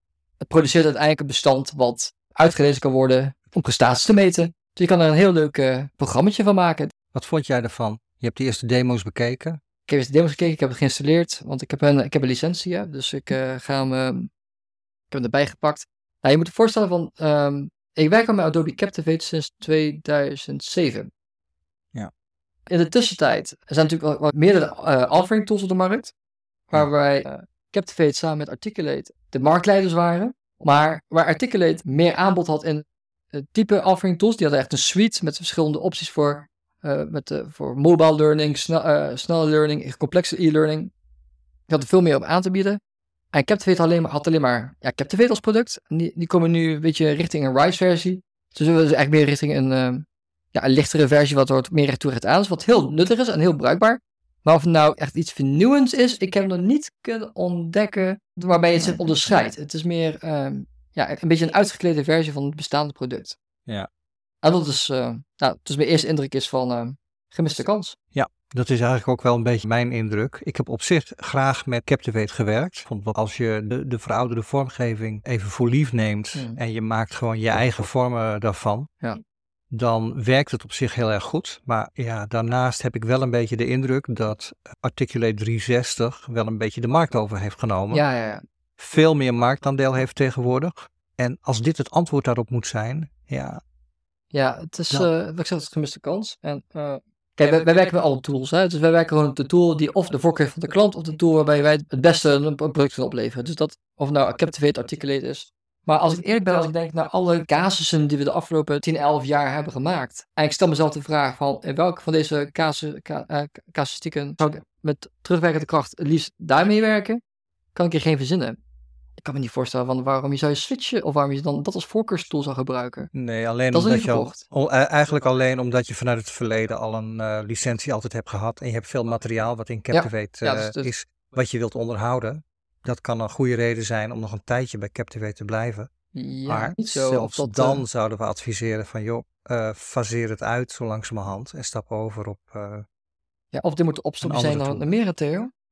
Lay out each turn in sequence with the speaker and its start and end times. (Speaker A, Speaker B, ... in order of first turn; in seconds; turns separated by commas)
Speaker A: 0.4-6.9, Speaker B: 7.1-9.6, Speaker A: 9.9-14.3, Speaker A: 15.1-21.1, Speaker A: 22.7-26.1, Speaker A: 26.7-40.9, Speaker A: 41.7-42.8, Speaker A: 43.3-63.4, Speaker A: 64.4-68.0, Speaker B: 68.2-78.9, Speaker A: 76.3-76.6, Speaker B: 79.7-88.0, Speaker A: 87.9-88.4, Speaker B: 88.8-93.6, Speaker A: 94.3-117.2, Speaker A: 117.8-118.6, Speaker A: 119.2-123.1, Speaker B: 123.1-135.9, Speaker A: 123.7-124.4, Speaker A: 129.9-130.9, Speaker A: 136.1-137.8, Speaker B: 136.5-142.9, Speaker A: 143.5-145.5, Speaker B: 144.2-144.8